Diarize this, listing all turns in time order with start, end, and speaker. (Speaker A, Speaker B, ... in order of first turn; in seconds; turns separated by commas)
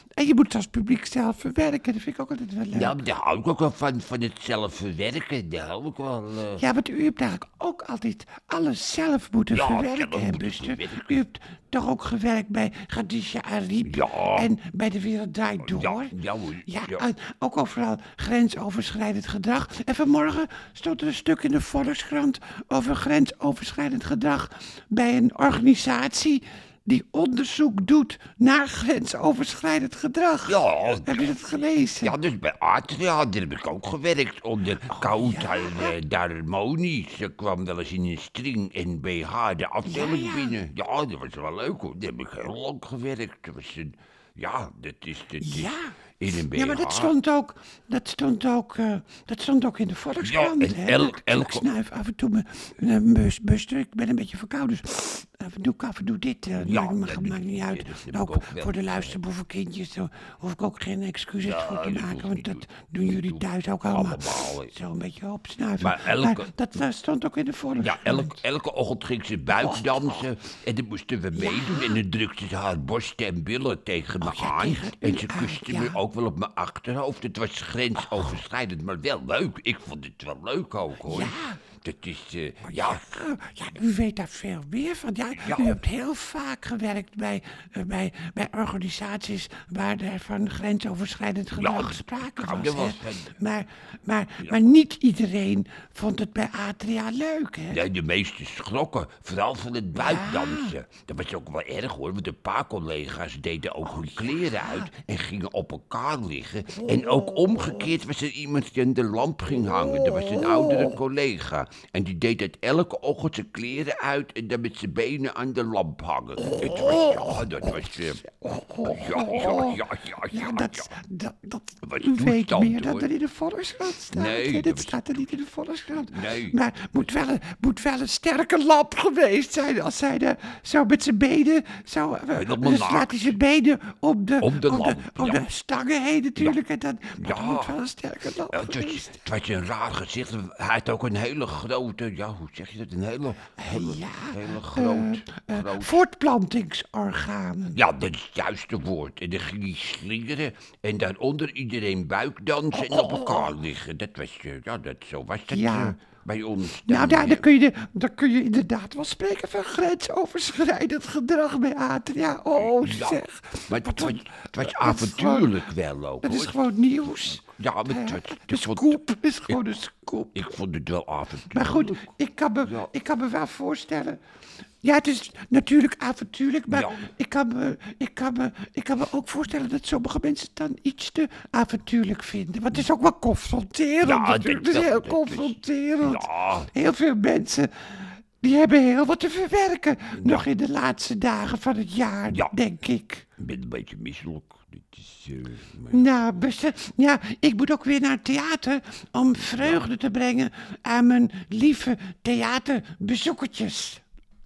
Speaker A: 0.2-3.0, Speaker B: 2.7-6.6, Speaker A: 6.6-16.1, Speaker B: 9.5-11.2, Speaker B: 13.8-14.5, Speaker B: 15.6-17.1, Speaker A: 16.7-32.1, Speaker B: 30.5-31.4, Speaker B: 32.0-47.1, Speaker A: 34.9-36.0, Speaker A: 39.9-40.6, Speaker A: 45.4-68.4, Speaker B: 50.2-51.7, Speaker B: 56.6-59.2, Speaker B: 61.4-64.7, Speaker B: 65.8-66.5, Speaker B: 67.8-83.1, Speaker A: 69.5-70.2, Speaker A: 71.3-72.0, Speaker A: 74.2-76.0, Speaker A: 78.0-78.4, Speaker A: 81.0-81.6, Speaker A: 82.7-97.8, Speaker B: 85.3-85.8, Speaker B: 91.5-93.4, Speaker B: 97.7-118.2, Speaker A: 100.0-100.8, Speaker A: 103.8-104.9, Speaker A: 116.8-117.0, Speaker A: 117.8-139.2, Speaker B: 118.8-120.9, Speaker B: 121.8-123.1, Speaker B: 124.1-125.3, Speaker B: 126.0-126.6, Speaker B: 132.3-133.4, Speaker B: 134.4-135.5, Speaker B: 137.2-137.8, Speaker B: 138.5-146.0, Speaker A: 143.6-147.8, Speaker B: 147.7-157.5, Speaker A: 152.9-153.4, Speaker A: 155.5-156.0, Speaker A: 156.9-165.5, Speaker B: 162.6-169.0, Speaker A: 166.2-170.6, Speaker B: 170.3-172.1, Speaker A: 171.5-174.2, Speaker B: 172.6-172.9, Speaker A: 174.8-193.3, Speaker B: 176.7-177.0, Speaker B: 184.0-186.7, Speaker B: 190.1-190.4, Speaker B: 192.3-192.5, Speaker B: 193.4-196.1, Speaker A: 195.9-204.0, Speaker B: 199.4-199.9